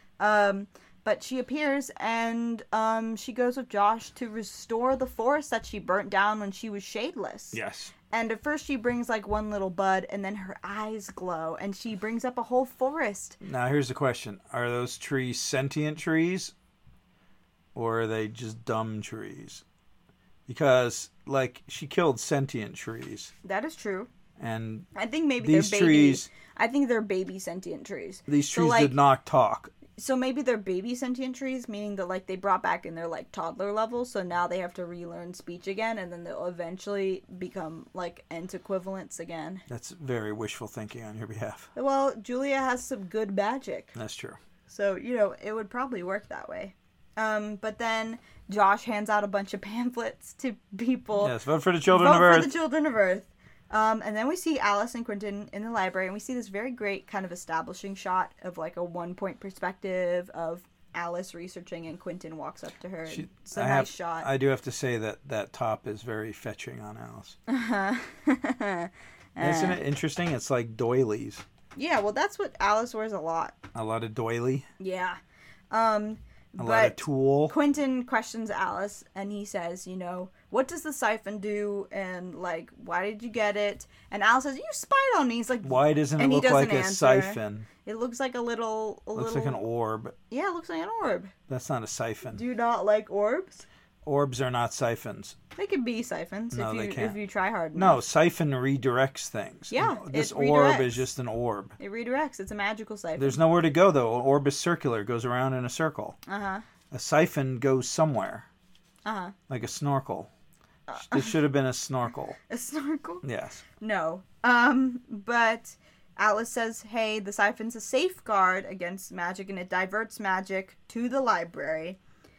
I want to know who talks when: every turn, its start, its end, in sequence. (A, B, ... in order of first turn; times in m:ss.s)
0:00.2-0:07.6 A
0:07.5-0:07.9 B
0:08.1-0:13.4 A
0:13.4-0:16.5 B
0:17.7-0:19.6 B
0:20.5-0:23.3 B
0:23.4-0:24.1 A
0:24.4-0:24.9 B
0:24.9-0:29.0 A
0:25.4-0:26.3 B
0:28.3-0:29.7 B
0:30.0-0:39.6 A
0:39.7-0:41.7 B
0:41.7-0:44.0 A
0:43.9-0:44.4 B
0:44.7-0:51.3 A
0:51.2-0:52.5 B
0:51.9-1:04.3 A
1:03.1-1:07.4 B
1:07.5-1:09.8 A
1:09.4-1:11.4 B
1:11.7-1:13.6 A
1:13.7-1:14.6 B
1:14.8-1:15.2 A
1:15.7-1:29.6 A
1:16.6-1:17.5 B
1:25.6-1:27.7 B
1:29.1-1:30.1 B
1:30.3-1:31.3 A
1:31.5-1:32.4 B
1:32.3-1:33.6 A
1:34.0-1:35.4 B
1:35.6-1:38.0 A
1:36.5-1:37.2 B
1:37.7-1:41.8 B
1:39.7-1:41.1 A
1:41.8-1:43.4 A
1:43.2-1:46.2 B
1:46.3-1:46.6 A
1:46.9-1:48.4 B
1:49.0-1:49.3 A
1:49.5-1:50.3 B
1:50.9-1:51.4 A
1:50.9-1:52.4 B
1:52.5-1:53.2 A
1:53.2-1:53.6 B
1:53.8-2:02.0 A